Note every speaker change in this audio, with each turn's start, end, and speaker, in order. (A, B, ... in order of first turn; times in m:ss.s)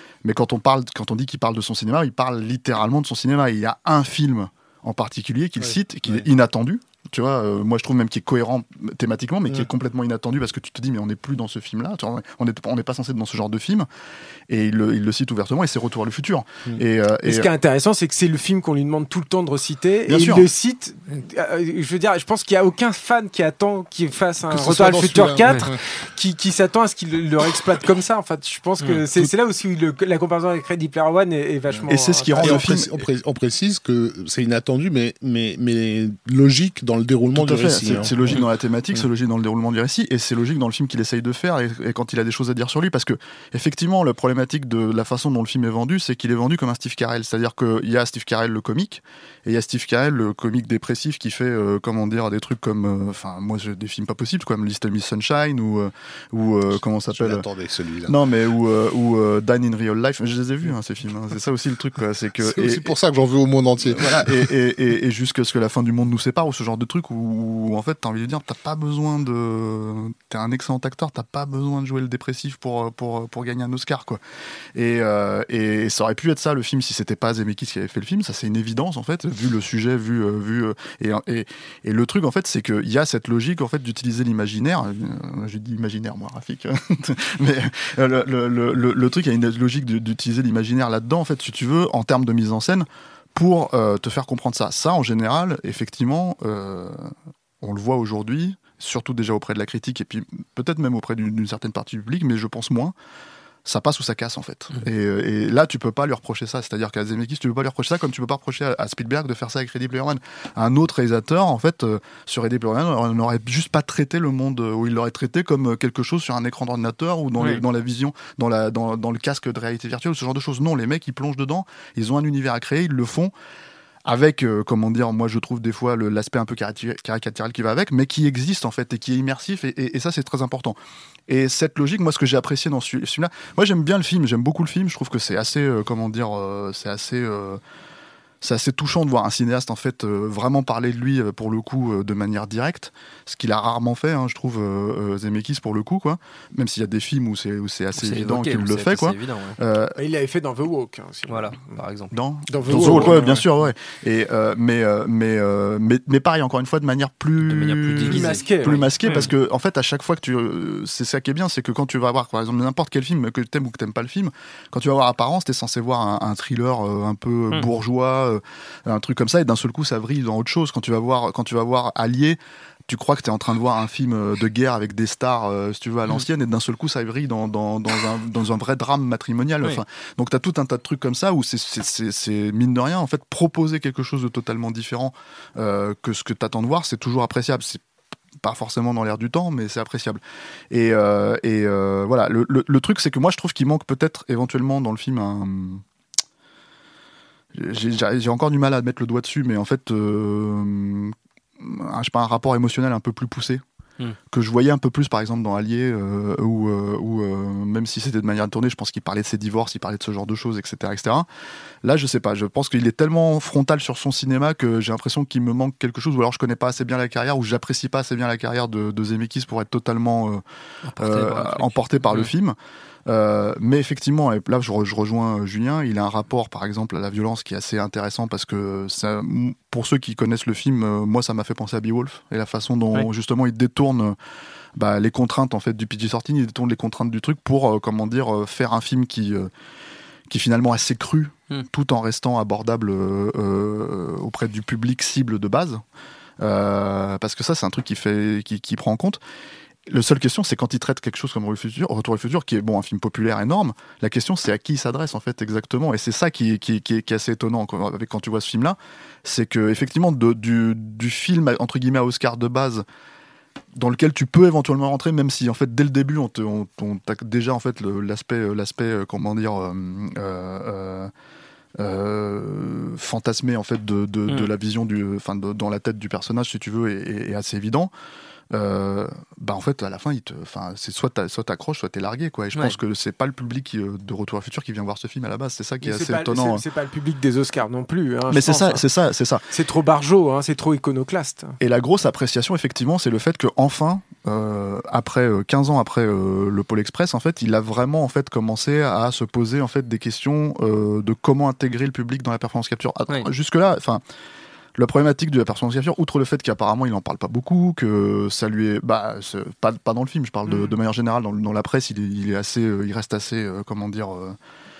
0:00.2-0:13.9 A
0:14.5-0:17.5 A
0:17.2-0:32.7 B
0:20.1-0:20.5 A
0:24.5-0:25.8 C
0:31.9-0:33.0 A
0:32.4-0:38.4 C
0:37.3-0:57.4 A
0:57.2-0:58.2 C
0:58.0-1:02.9 A
1:02.4-1:04.5 C
1:03.8-1:14.2 A
1:14.7-1:42.9 A
1:43.6-2:03.3 A
1:57.4-1:57.6 D
2:04.0-2:17.6 A
2:18.4-2:30.0 A
2:28.0-2:29.6 D
2:30.0-2:31.8 B
2:31.3-2:32.1 D
2:32.1-3:07.8 A
2:32.5-2:33.4 B
2:32.8-2:33.2 D
2:37.4-2:39.3 D
2:38.0-2:38.8 B
3:08.4-3:15.8 A
3:17.5-3:23.6 A
3:24.3-3:31.3 A
3:31.8-3:40.4 A
3:40.8-3:42.3 D
3:41.0-3:54.2 A
3:54.8-3:59.5 A
4:00.3-4:05.8 A
4:06.4-4:09.2 A
4:09.9-4:22.8 A
4:23.7-4:31.1 A
4:31.8-4:37.9 A
4:38.5-4:46.6 A
4:45.8-4:48.8 B
4:48.3-4:49.4 A
4:49.5-4:51.6 B
4:51.6-5:04.0 A
5:04.8-5:14.4 A